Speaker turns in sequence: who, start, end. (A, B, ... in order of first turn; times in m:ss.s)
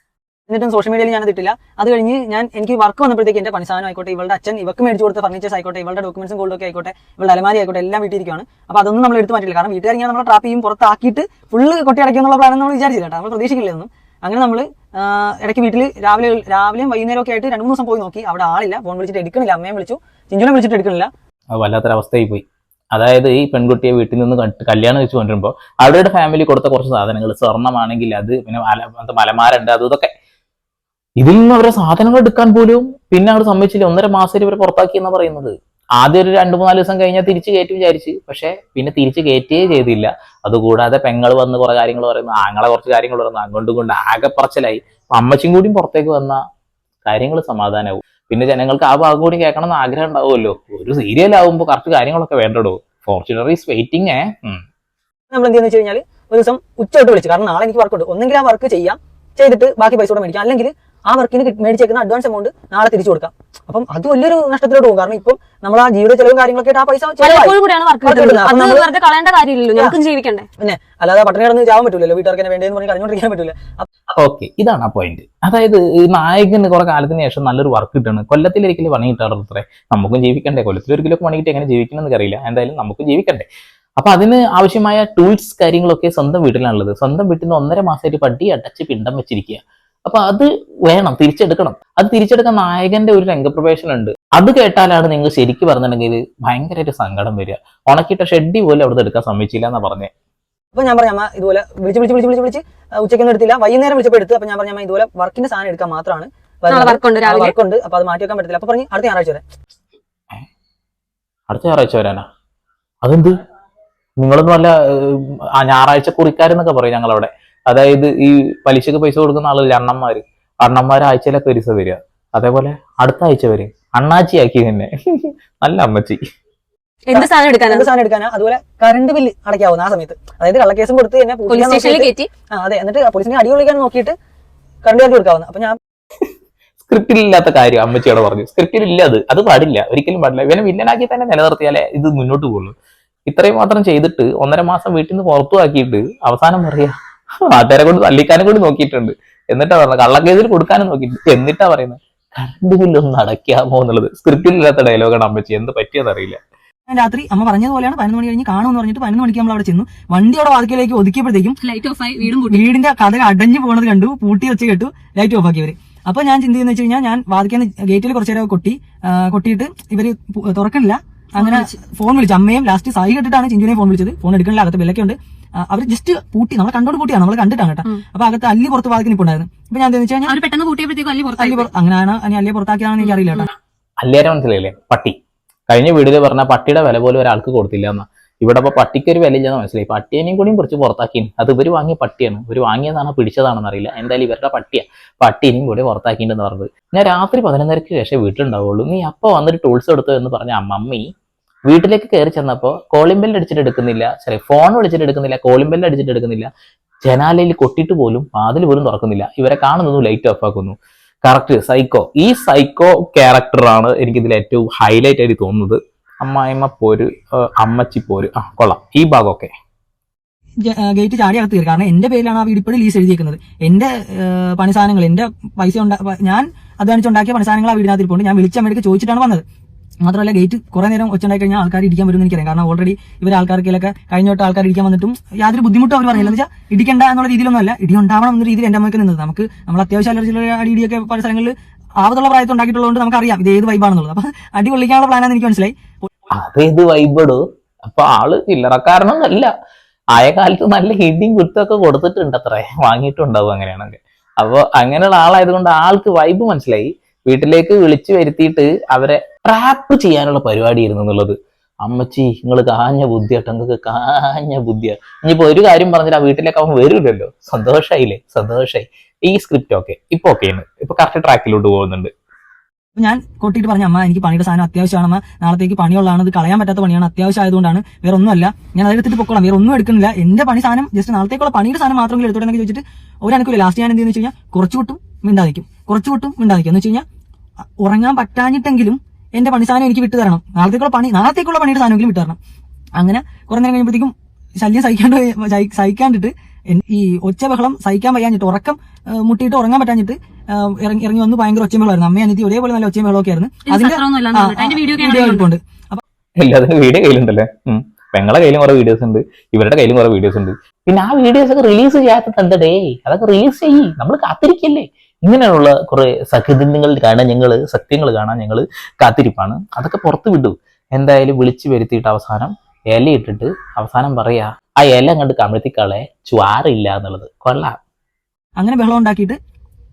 0:00.5-0:21.1 A
0:21.5-0:30.1 B
0:31.2-0:46.4 B
0:47.0-0:54.6 B
0:55.3-1:08.9 A
1:07.2-1:10.5 C
1:10.6-1:13.8 A
1:14.1-1:23.5 B
1:24.0-1:40.1 B
1:40.7-1:49.4 A
1:46.7-1:47.5 C
1:51.5-1:52.2 B
1:53.0-1:53.4 B
1:54.2-2:06.2 B
2:07.1-2:07.8 C
2:07.1-2:14.1 A
2:11.5-2:12.3 C
2:14.8-2:15.8 A
2:16.8-2:22.7 B
2:23.3-2:36.4 B
2:36.9-2:41.6 A
2:41.6-2:42.6 C
2:42.3-3:00.3 A
2:51.4-2:51.7 C
3:00.3-3:01.7 C
3:01.4-3:03.5 A
3:03.0-3:03.5 C
3:04.0-3:05.1 B
3:05.7-3:21.0 B
3:21.7-3:26.5 B
3:27.0-3:39.5 B
3:40.6-3:49.4 A
3:50.0-4:06.0 A
4:06.3-4:09.5 B
4:10.2-4:32.1 B
4:33.0-4:47.0 A
4:47.8-4:52.4 A
4:53.0-5:06.0 A
5:03.6-5:05.4 C
5:06.4-5:27.8 B
5:28.6-5:29.4 A